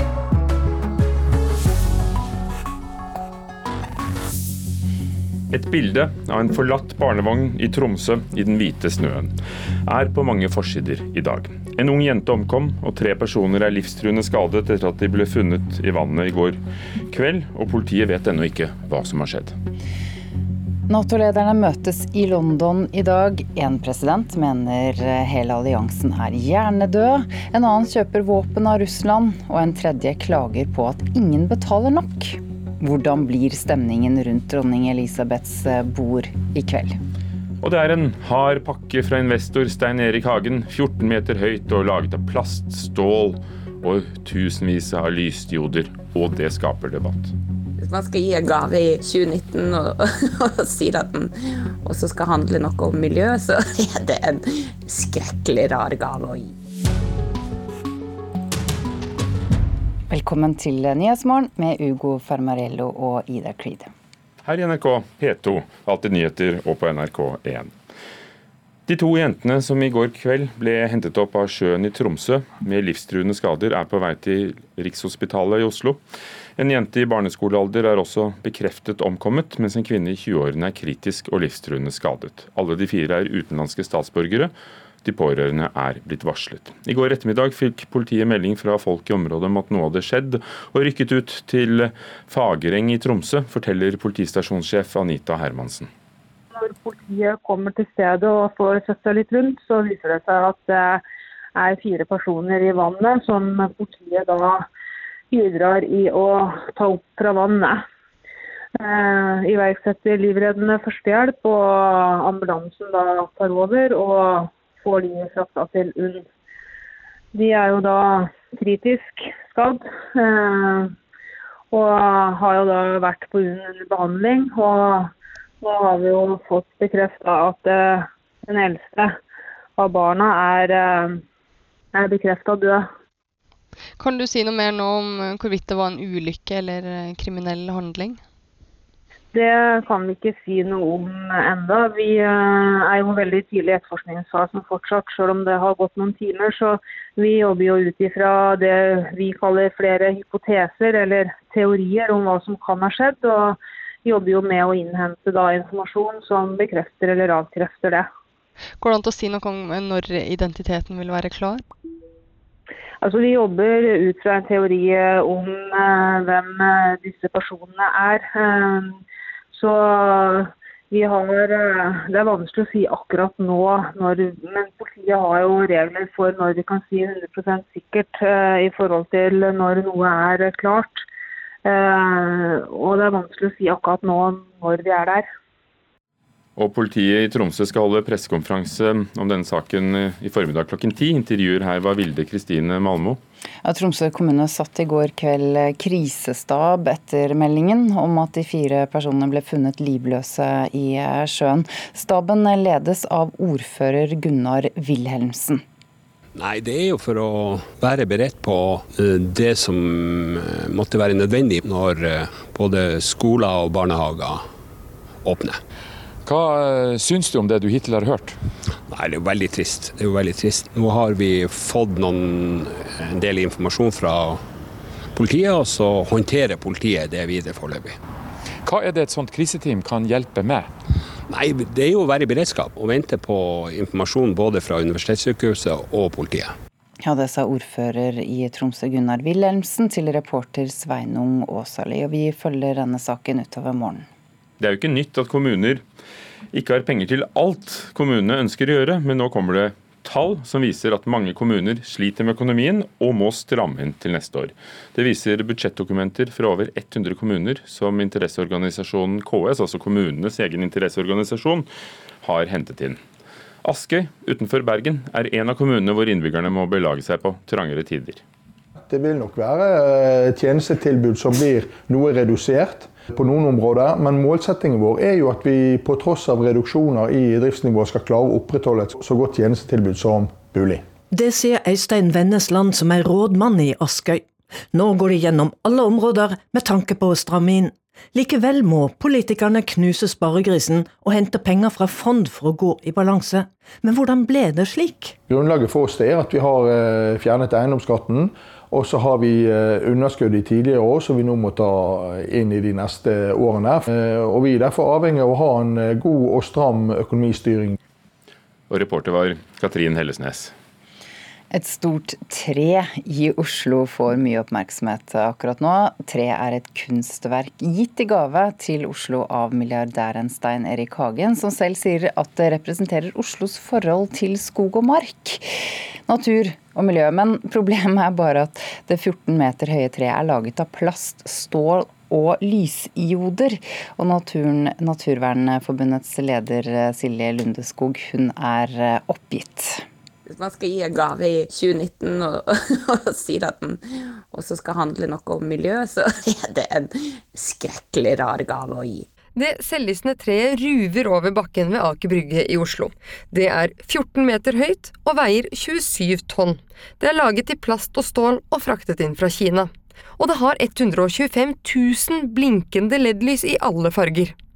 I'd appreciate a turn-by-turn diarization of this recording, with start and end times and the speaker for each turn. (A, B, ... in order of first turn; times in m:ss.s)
0:05.5-0:09.3 A
0:09.8-0:16.6 A
0:17.1-0:19.6 A
0:20.9-0:37.0 B
0:37.6-0:47.3 A
0:47.8-0:56.5 C
1:00.1-1:03.9 B
1:04.4-1:07.7 A
1:08.9-1:16.0 A
1:16.6-1:24.5 A
1:25.0-1:35.9 A
1:36.5-1:41.0 D
1:41.6-1:44.6 D
1:45.3-1:47.8 D
1:48.8-1:56.2 D
1:57.3-2:00.9 D
2:01.7-2:05.1 D
2:05.6-2:09.1 D
2:09.8-2:11.2 D
2:11.9-2:12.8 D
2:14.0-2:18.2 E
2:19.3-2:38.1 D
2:38.8-2:41.6 E
2:43.0-2:49.0 D
2:49.5-3:01.0 D
3:01.6-3:05.3 D
3:06.6-3:13.2 A
3:13.6-3:25.6 B
3:26.4-3:34.4 F
3:35.2-3:35.6 F
3:36.2-3:38.4 G
3:38.9-3:44.4 F
3:45.2-3:48.0 F
3:48.6-3:50.7 G
3:51.3-3:56.5 F
3:57.0-4:04.1 B
4:04.6-4:05.8 A
4:06.5-4:21.7 A
4:22.2-4:23.0 A
4:23.6-4:28.2 A
4:28.9-4:40.8 H
4:41.1-4:55.2 I
4:55.3-5:07.8 H
5:08.7-5:10.5 A
5:11.5-5:39.8 B
5:40.3-5:49.1 C
5:49.3-6:04.3 J